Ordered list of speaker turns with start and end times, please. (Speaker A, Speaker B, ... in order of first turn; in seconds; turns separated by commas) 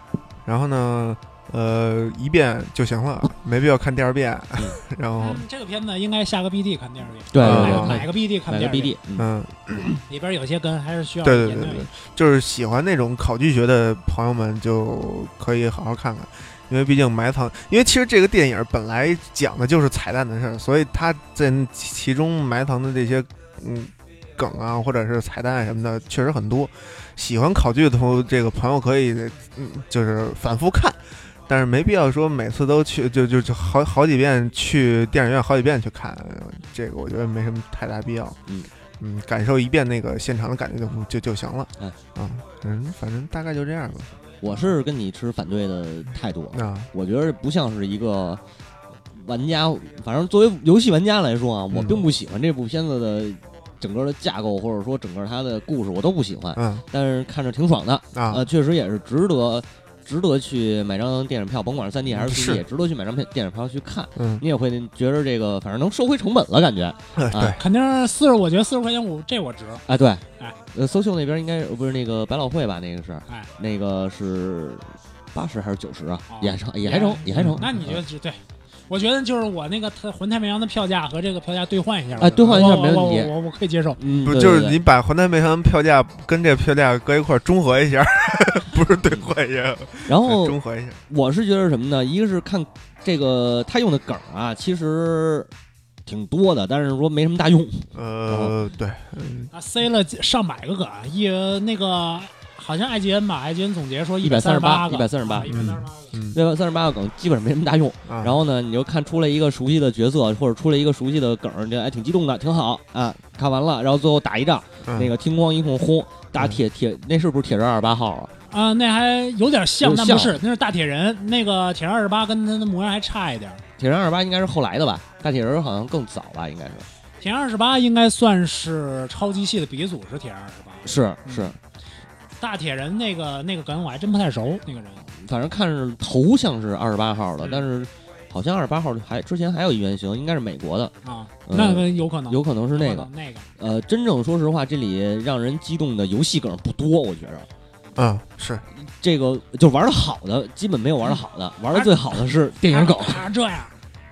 Speaker A: 0.5-5.4, Speaker B: 5.2-8.9, Speaker C: 7.3-9.3, Speaker A: 7.4-8.0, Speaker A: 9.2-10.0, Speaker B: 10.1-11.9, Speaker A: 11.2-38.4, Speaker A: 39.0-44.1, Speaker C: 44.4-48.4, Speaker A: 46.5-46.9, Speaker C: 49.1-67.6, Speaker A: 51.7-52.1, Speaker A: 56.5-56.8, Speaker A: 58.1-58.4, Speaker A: 62.1-62.6, Speaker A: 64.2-64.4, Speaker A: 67.2-67.6, Speaker B: 67.6-69.8, Speaker C: 69.9-78.0, Speaker B: 76.3-84.0, Speaker A: 77.3-77.7, Speaker C: 82.2-83.3, Speaker C: 84.0-84.8, Speaker A: 84.2-91.0, Speaker C: 90.1-95.5, Speaker C: 96.0-98.5, Speaker A: 97.9-99.5, Speaker B: 99.5-106.1, Speaker C: 104.2-105.8, Speaker A: 105.5-106.4, Speaker C: 106.3-118.3, Speaker A: 108.1-108.4, Speaker A: 114.8-115.1, Speaker B: 118.5-123.6, Speaker C: 119.8-120.4, Speaker C: 123.8-126.9, Speaker B: 127.2-131.5, Speaker C: 130.8-131.6, Speaker B: 132.4-135.1, Speaker C: 135.1-140.9, Speaker B: 141.0-143.5, Speaker C: 141.5-147.5, Speaker A: 147.9-148.6, Speaker C: 148.7-153.2, Speaker B: 152.6-153.7